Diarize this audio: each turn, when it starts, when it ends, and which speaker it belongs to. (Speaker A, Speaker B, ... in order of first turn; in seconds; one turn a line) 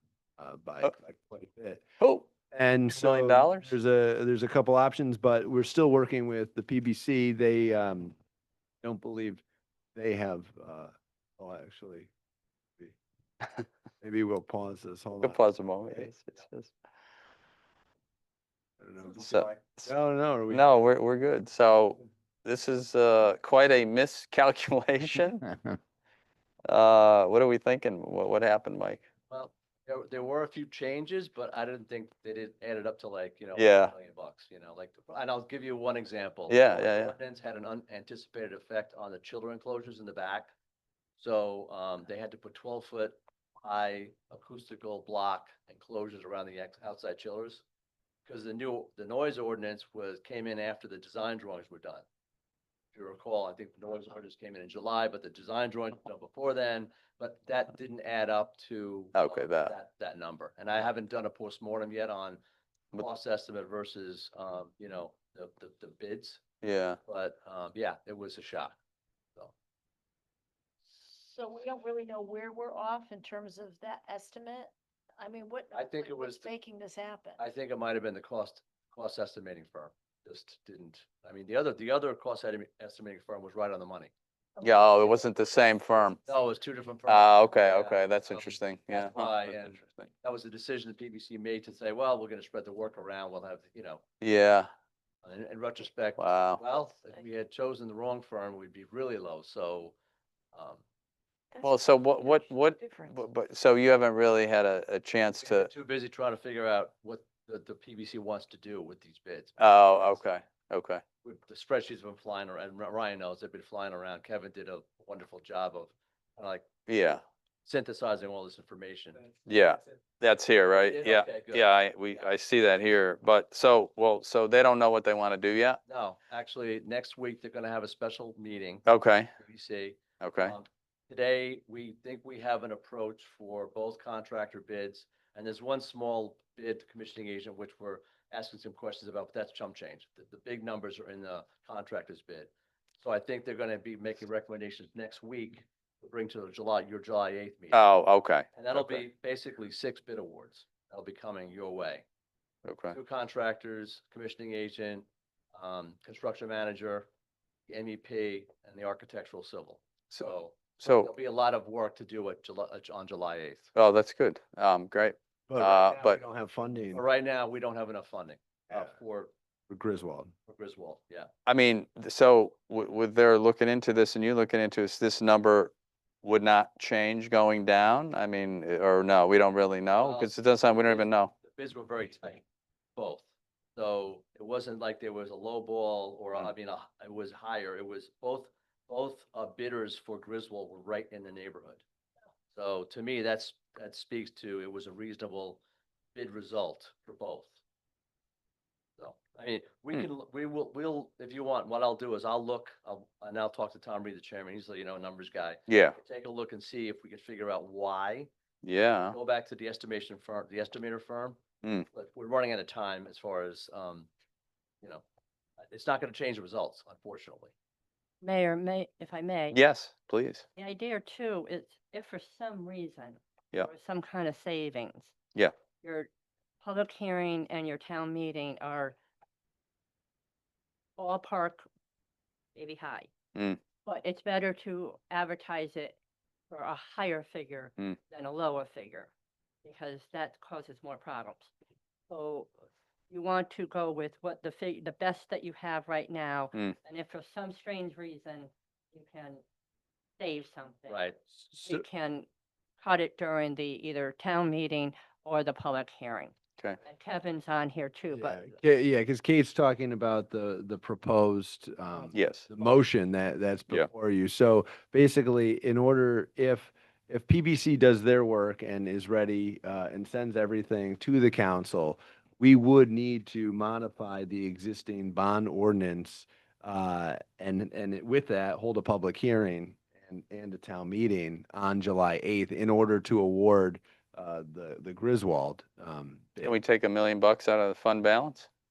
Speaker A: 0.4-1.8
Speaker B: 2.0-2.3
Speaker A: 2.5-8.2
Speaker B: 2.9-3.8
Speaker A: 8.8-9.4
Speaker A: 9.9-12.1
Speaker A: 14.0-15.4
Speaker B: 15.2-16.7
Speaker A: 18.8-20.6
Speaker B: 19.1-19.9
Speaker B: 20.5-25.4
Speaker B: 26.7-29.0
Speaker C: 29.3-40.5
Speaker B: 33.6-33.9
Speaker B: 36.5-37.1
Speaker C: 41.2-47.6
Speaker C: 48.3-52.0
Speaker C: 52.9-62.4
Speaker B: 59.1-59.7
Speaker C: 62.9-66.4
Speaker B: 66.6-67.0
Speaker C: 67.1-68.8
Speaker D: 70.9-77.4
Speaker C: 75.7-76.5
Speaker C: 77.4-84.1
Speaker D: 84.6-85.1
Speaker B: 84.6-86.2
Speaker C: 86.2-94.0
Speaker B: 87.1-90.1
Speaker B: 94.2-94.7
Speaker C: 95.2-99.9
Speaker B: 96.2-96.6
Speaker C: 100.5-100.8
Speaker B: 101.6-105.7
Speaker D: 102.3-103.2
Speaker C: 105.4-110.2
Speaker B: 109.6-111.0
Speaker C: 111.2-116.7
Speaker B: 116.9-117.2
Speaker C: 117.7-119.2
Speaker B: 119.5-125.8
Speaker C: 120.8-121.7
Speaker C: 125.9-128.9
Speaker B: 128.9-129.3
Speaker C: 129.4-147.9
Speaker B: 130.2-130.6
Speaker B: 147.7-149.0
Speaker C: 148.5-152.0
Speaker B: 152.7-153.0
Speaker C: 152.9-157.1
Speaker C: 157.7-163.7
Speaker B: 160.8-161.1
Speaker B: 163.8-166.2
Speaker A: 165.5-167.0
Speaker C: 166.9-169.3
Speaker A: 169.7-170.3
Speaker C: 170.5-171.3
Speaker B: 171.5-181.3
Speaker C: 180.0-182.4
Speaker C: 183.0-191.8
Speaker C: 192.5-195.6
Speaker C: 196.2-197.5
Speaker C: 199.0-208.3
Speaker B: 205.7-206.0
Speaker B: 208.6-209.2
Speaker C: 209.1-211.4
Speaker C: 211.9-214.1
Speaker C: 215.6-217.5
Speaker E: 218.2-219.6
Speaker B: 219.5-220.4
Speaker E: 220.6-225.2
Speaker E: 225.8-226.1
Speaker E: 226.6-229.0
Speaker E: 231.0-231.7
Speaker E: 232.6-233.1
Speaker E: 233.8-236.0
Speaker E: 236.5-239.1
Speaker E: 239.6-241.5
Speaker E: 242.1-242.5
Speaker E: 243.1-249.4
Speaker E: 250.2-252.3
Speaker C: 250.9-251.2
Speaker A: 251.5-251.8
Speaker E: 252.8-258.6
Speaker A: 258.1-286.6
Speaker B: 262.1-262.5
Speaker B: 286.4-288.5